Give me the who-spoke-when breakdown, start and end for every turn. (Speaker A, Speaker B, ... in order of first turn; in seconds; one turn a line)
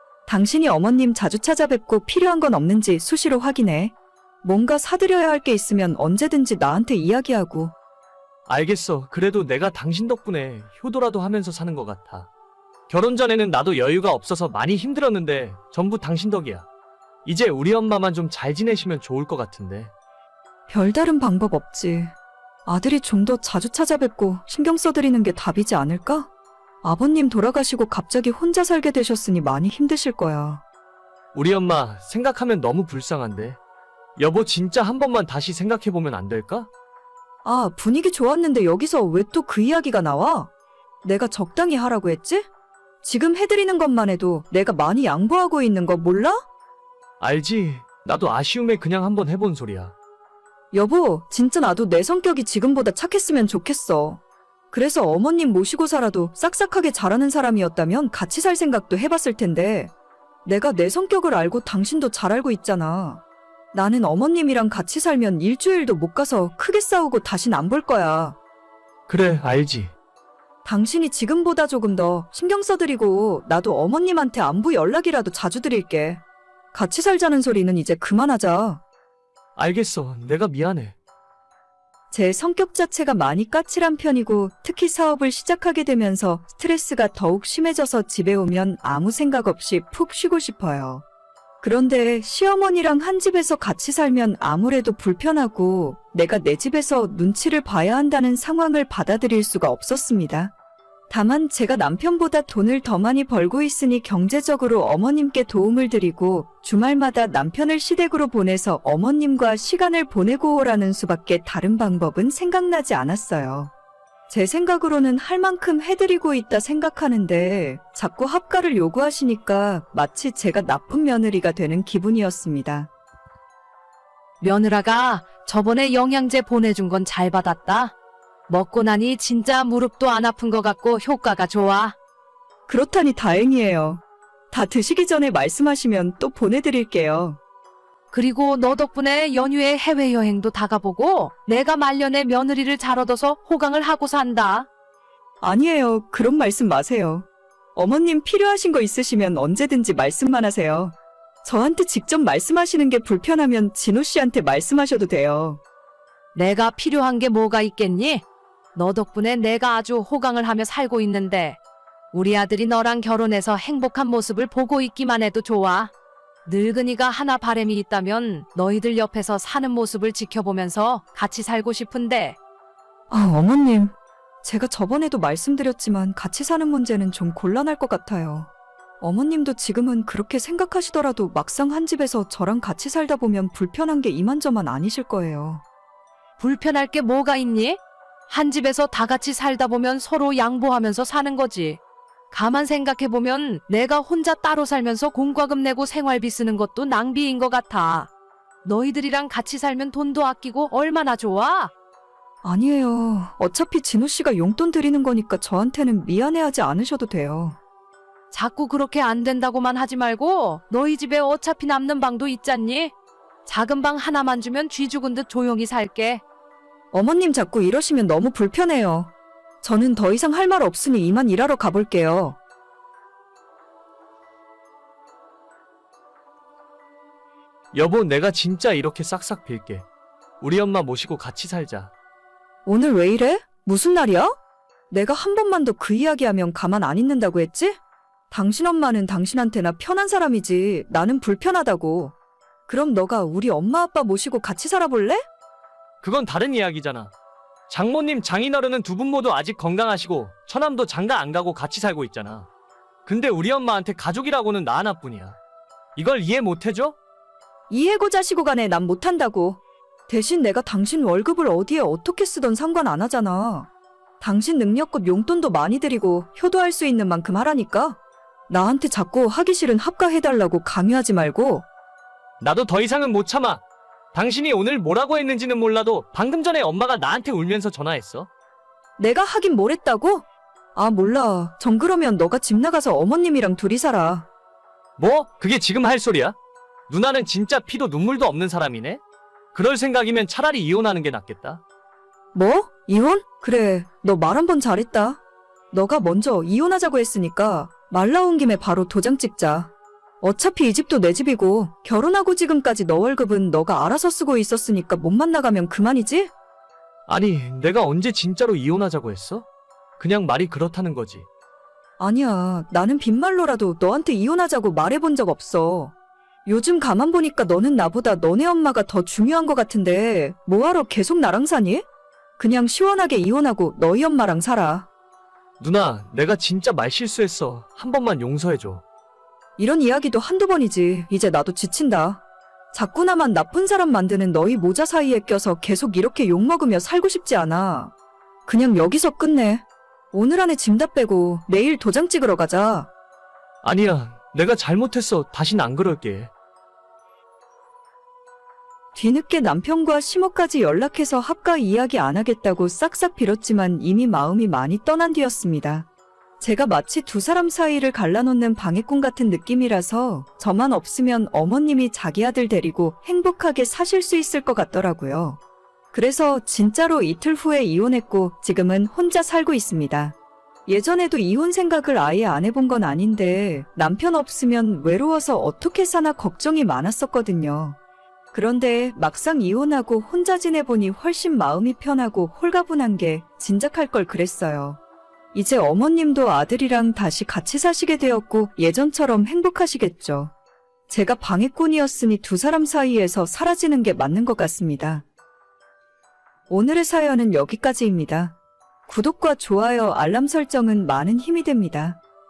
Speaker A: 0.3-7.7
Speaker B: 8.5-12.3
Speaker B: 12.9-16.6
Speaker B: 17.2-19.9
Speaker A: 20.7-22.1
Speaker A: 22.6-26.3
Speaker A: 26.8-30.6
Speaker B: 31.3-33.6
Speaker B: 34.2-36.7
Speaker A: 37.4-40.5
Speaker A: 41.0-42.5
Speaker A: 43.0-46.4
Speaker B: 47.2-49.9
Speaker A: 50.7-54.2
Speaker A: 54.7-59.9
Speaker A: 60.4-63.2
Speaker A: 63.7-68.3
Speaker B: 69.1-69.9
Speaker A: 70.6-76.2
Speaker A: 76.7-78.8
Speaker B: 79.5-80.9
Speaker A: 82.1-91.0
Speaker A: 91.6-100.5
Speaker A: 101.1-113.7
Speaker A: 114.3-122.9
Speaker C: 124.4-127.9
Speaker C: 128.5-131.9
Speaker A: 132.7-137.4
Speaker C: 138.1-144.7
Speaker A: 145.4-155.6
Speaker C: 156.3-158.2
Speaker C: 158.7-161.6
Speaker C: 162.1-165.9
Speaker C: 166.4-172.4
Speaker A: 173.1-178.5
Speaker A: 179.0-185.6
Speaker C: 186.4-191.8
Speaker C: 192.3-198.1
Speaker C: 198.6-201.7
Speaker A: 202.4-207.6
Speaker C: 208.3-212.9
Speaker C: 213.4-216.2
Speaker A: 216.9-219.1
Speaker A: 219.6-222.4
Speaker B: 227.7-229.8
Speaker B: 230.4-231.9
Speaker A: 232.7-234.4
Speaker A: 234.9-237.8
Speaker A: 238.3-242.1
Speaker A: 242.7-245.2
Speaker B: 246.0-247.1
Speaker B: 247.7-252.5
Speaker B: 253.1-255.4
Speaker B: 255.9-256.9
Speaker A: 257.7-263.7
Speaker A: 264.2-271.6
Speaker B: 272.4-273.6
Speaker B: 274.1-278.3
Speaker A: 279.0-280.2
Speaker A: 280.7-284.2
Speaker B: 285.0-286.4
Speaker B: 286.9-289.0
Speaker B: 289.5-291.6
Speaker A: 292.3-295.2
Speaker A: 295.7-306.3
Speaker B: 307.1-309.4
Speaker B: 310.0-311.3
Speaker A: 312.0-315.9
Speaker A: 316.4-321.8
Speaker A: 322.4-324.9
Speaker B: 325.6-328.8
Speaker A: 329.6-332.2
Speaker A: 332.7-337.9
Speaker A: 338.5-342.9
Speaker B: 343.6-346.3
Speaker A: 348.9-355.9
Speaker A: 356.4-365.4
Speaker A: 365.9-370.1
Speaker A: 370.7-377.8
Speaker A: 378.3-384.8
Speaker A: 385.3-390.3
Speaker A: 390.9-395.0
Speaker A: 396.5-398.3
Speaker A: 398.9-402.0